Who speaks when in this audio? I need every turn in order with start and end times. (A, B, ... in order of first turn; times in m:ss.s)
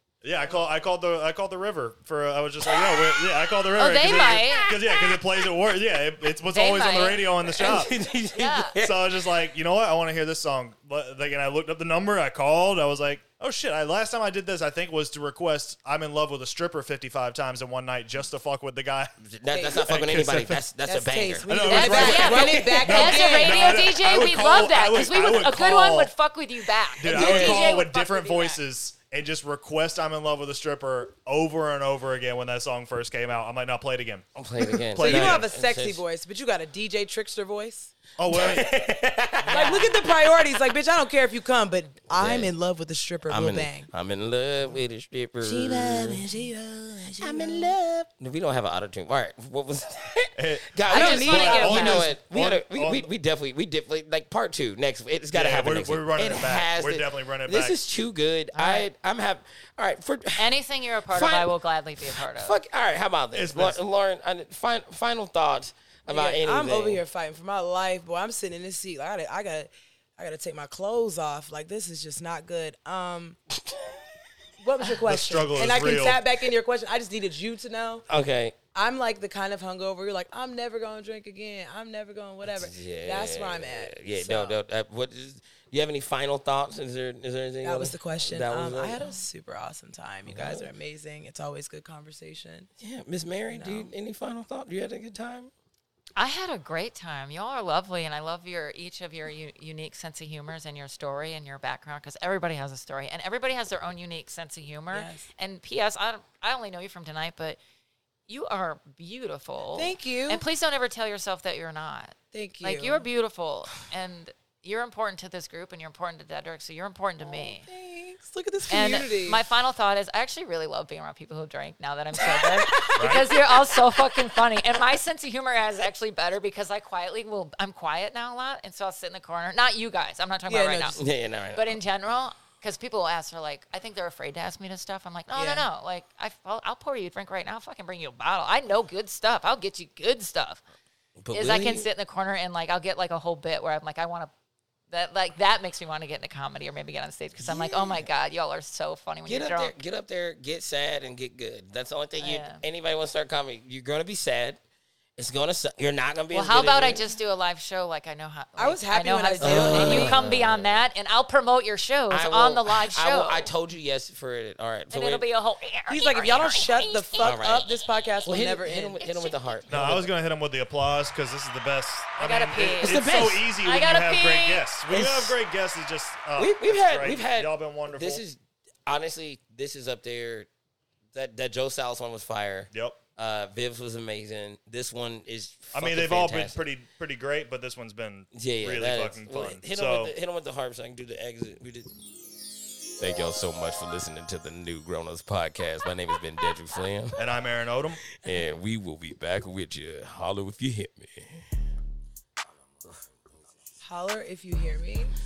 0:00.2-0:07.9 A
0:02.7-0:03.2 B
0:03.7-0:04.8 C
0:04.5-0:05.0 B
0:06.5-0:08.8 C
0:07.5-0:09.2 B
0:08.8-0:19.1 A
0:19.2-0:22.4 B
0:19.5-0:19.8 D
0:19.6-0:20.6 A
0:20.9-0:23.6 D
0:21.4-0:26.1 A
0:21.7-0:28.6 C
0:27.0-0:35.4 A
0:27.1-0:27.8 B
0:27.2-0:27.6 D
0:34.4-0:36.0 B
0:35.0-0:37.9 D
0:38.2-0:38.7 A
0:38.3-0:40.1 B
0:39.5-0:43.9 D
0:39.5-0:39.9 C
0:42.2-0:42.5 B
0:43.3-0:46.5 B
0:45.4-0:47.8 D
0:47.2-1:00.5 B
0:50.4-0:53.1 A
0:50.9-0:52.1 D
0:50.9-0:52.1 C
0:55.3-0:57.8 A
0:58.5-0:58.9 C
1:00.4-1:02.6 C
1:01.1-1:07.0 B
1:03.3-1:03.8 A
1:06.1-1:13.4 D
1:13.6-1:14.0 B
1:14.6-1:18.0 D
1:15.0-1:16.2 A
1:18.1-1:18.6 B
1:18.7-1:24.6 D
1:22.4-1:29.0 B
1:27.6-1:32.7 D
1:30.3-1:30.7 B
1:32.8-1:35.5 B
1:33.5-1:33.9 D
1:36.2-1:47.6 C
1:44.9-1:45.3 D
1:48.3-1:57.7 C
1:49.8-1:50.4 D
1:52.3-1:53.0 D
1:57.2-1:59.4 D
1:58.7-2:20.6 C
2:02.2-2:04.0 B
2:03.0-2:03.3 A
2:10.5-2:11.0 D
2:11.0-2:11.7 B
2:15.3-2:15.7 D
2:21.2-2:21.9 B
2:21.3-2:24.3 C
2:24.9-2:29.8 C
2:27.4-2:28.1 B
2:29.3-2:34.6 B
2:32.2-2:32.6 C
2:35.2-2:37.0 B
2:36.3-2:43.5 C
2:38.6-2:40.3 D
2:39.4-2:40.8 B
2:42.1-2:45.2 B
2:44.9-2:47.4 C
2:45.9-2:49.0 D
2:47.2-2:47.7 B
2:48.2-2:50.0 B
2:49.0-2:49.9 C
2:49.7-2:58.2 A
2:52.2-2:54.7 C
2:52.8-2:53.5 B
2:54.9-2:55.4 B
2:56.4-3:00.5 B
3:01.1-3:06.6 B
3:02.7-3:03.0 A
3:05.7-3:10.1 A
3:08.4-3:11.9 B
3:13.0-3:17.2 B
3:17.2-3:18.0 A
3:18.2-3:21.5 B
3:23.8-3:25.2 D